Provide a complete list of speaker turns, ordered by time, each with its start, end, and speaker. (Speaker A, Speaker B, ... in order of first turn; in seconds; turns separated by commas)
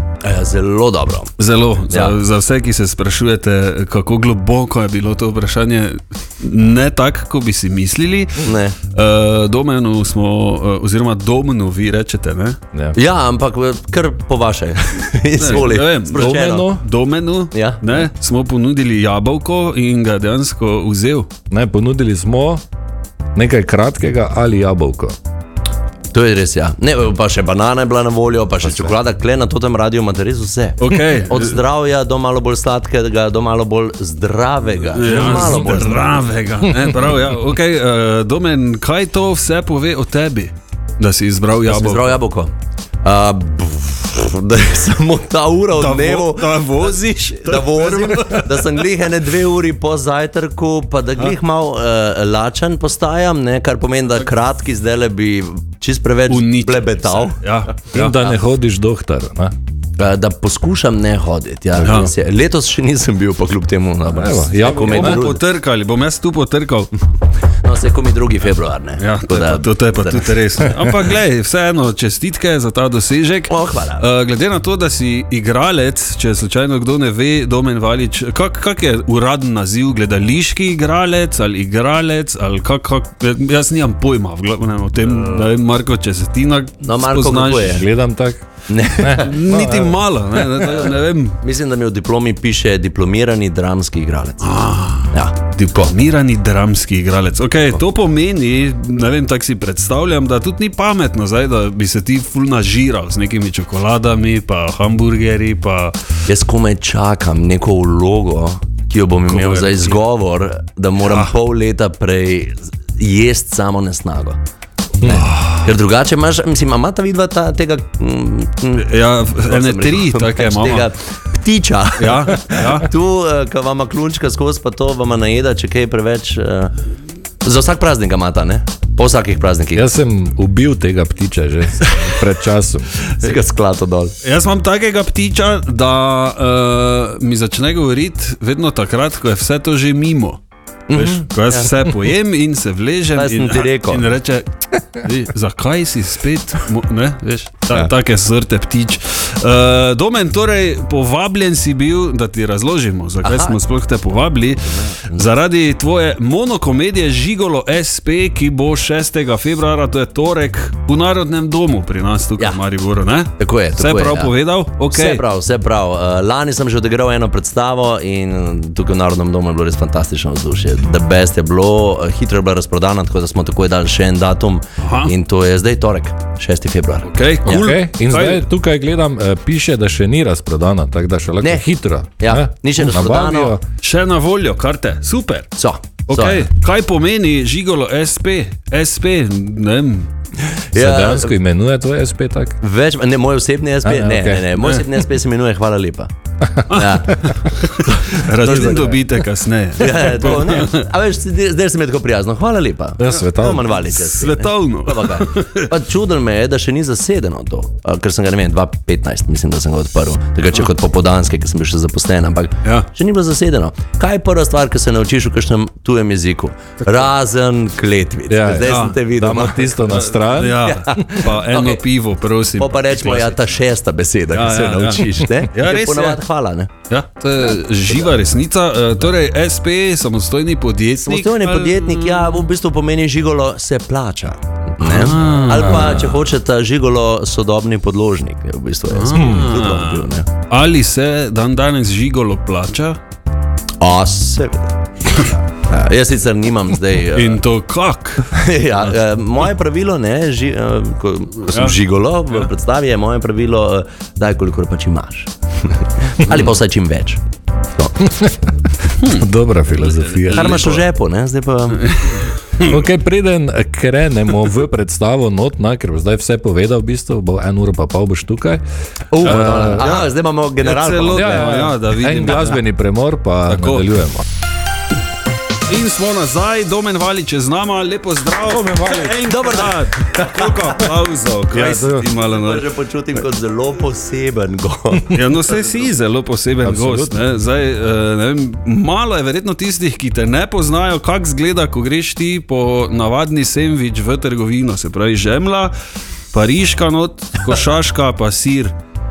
Speaker A: 0.2-1.3, Speaker B: 1.4-12.6, Speaker A: 1.9-2.2, Speaker A: 8.4-8.8, Speaker C: 12.7-13.0, Speaker A: 12.9-16.7, Speaker B: 15.4-21.3, Speaker C: 16.1-16.8, Speaker A: 17.5-17.8, Speaker C: 21.5-22.6, Speaker C: 23.3-25.1, Speaker A: 26.1-36.3, Speaker C: 28.6-29.0, Speaker B: 30.8-31.6, Speaker B: 34.9-42.2, Speaker C: 35.1-35.7, Speaker A: 41.7-42.5, Speaker A: 43.0-57.5, Speaker B: 45.7-48.7, Speaker B: 56.3-58.1, Speaker C: 57.9-59.5, Speaker A: 58.0-58.4, Speaker A: 60.0-65.4, Speaker C: 61.8-62.1, Speaker B: 61.8-62.1, Speaker C: 64.1-65.3, Speaker B: 64.6-66.9, Speaker A: 67.6-70.6, Speaker B: 69.0-87.8, Speaker A: 73.5-74.0, Speaker A: 86.8-87.9, Speaker C: 87.7-90.8, Speaker A: 88.7-89.3, Speaker B: 89.2-91.4, Speaker A: 91.4-94.5, Speaker B: 94.4-106.0, Speaker A: 95.1-95.9, Speaker A: 106.3-114.4, Speaker B: 109.3-110.0, Speaker B: 111.0-111.3, Speaker A: 115.0-126.7, Speaker B: 115.2-115.7, Speaker B: 118.8-120.9, Speaker B: 122.0-122.9, Speaker A: 127.4-129.8, Speaker C: 129.7-133.0, Speaker A: 133.2-134.1, Speaker B: 134.2-140.4, Speaker A: 140.9-141.8, Speaker B: 140.9-165.2, Speaker A: 143.2-144.1, Speaker A: 153.2-153.6, Speaker A: 154.6-155.2, Speaker A: 163.4-177.7, Speaker B: 174.8-175.1, Speaker B: 177.0-178.4, Speaker C: 177.5-183.6, Speaker A: 181.4-181.7, Speaker A: 182.2-183.6, Speaker B: 183.8-185.5, Speaker A: 185.6-186.5, Speaker B: 186.1-190.1, Speaker A: 190.5-191.3, Speaker C: 190.8-192.6, Speaker A: 192.6-196.1, Speaker C: 193.8-194.5, Speaker B: 194.6-194.8, Speaker B: 196.7-200.8, Speaker A: 196.7-197.2, Speaker A: 197.9-199.0, Speaker A: 199.8-220.0, Speaker C: 203.0-203.7, Speaker B: 203.9-205.7, Speaker C: 218.3-221.1, Speaker B: 218.7-219.0, Speaker B: 219.9-223.5, Speaker A: 220.6-221.8, Speaker A: 222.6-226.7, Speaker B: 224.3-226.2, Speaker B: 226.9-232.4, Speaker A: 227.9-228.2, Speaker A: 231.0-240.3, Speaker B: 234.8-236.2, Speaker B: 238.9-243.0, Speaker C: 239.2-239.4, Speaker A: 243.8-247.4, Speaker B: 247.1-248.4, Speaker A: 248.3-257.2, Speaker B: 251.5-251.8, Speaker C: 258.0-258.5, Speaker B: 259.0-259.3, Speaker C: 259.0-260.6, Speaker B: 260.0-260.9, Speaker A: 260.3-262.3, Speaker B: 261.8-262.8, Speaker C: 262.6-268.6, Speaker A: 269.1-271.7, Speaker C: 269.2-270.0, Speaker B: 269.2-270.0, Speaker B: 270.6-272.6, Speaker C: 271.1-274.2, Speaker B: 273.4-273.9, Speaker B: 275.7-282.7, Speaker C: 278.4-279.3, Speaker A: 279.2-280.8, Speaker A: 281.5-285.9, Speaker C: 281.6-282.1, Speaker B: 285.1-295.7, Speaker C: 286.6-287.2, Speaker B: 296.3-298.8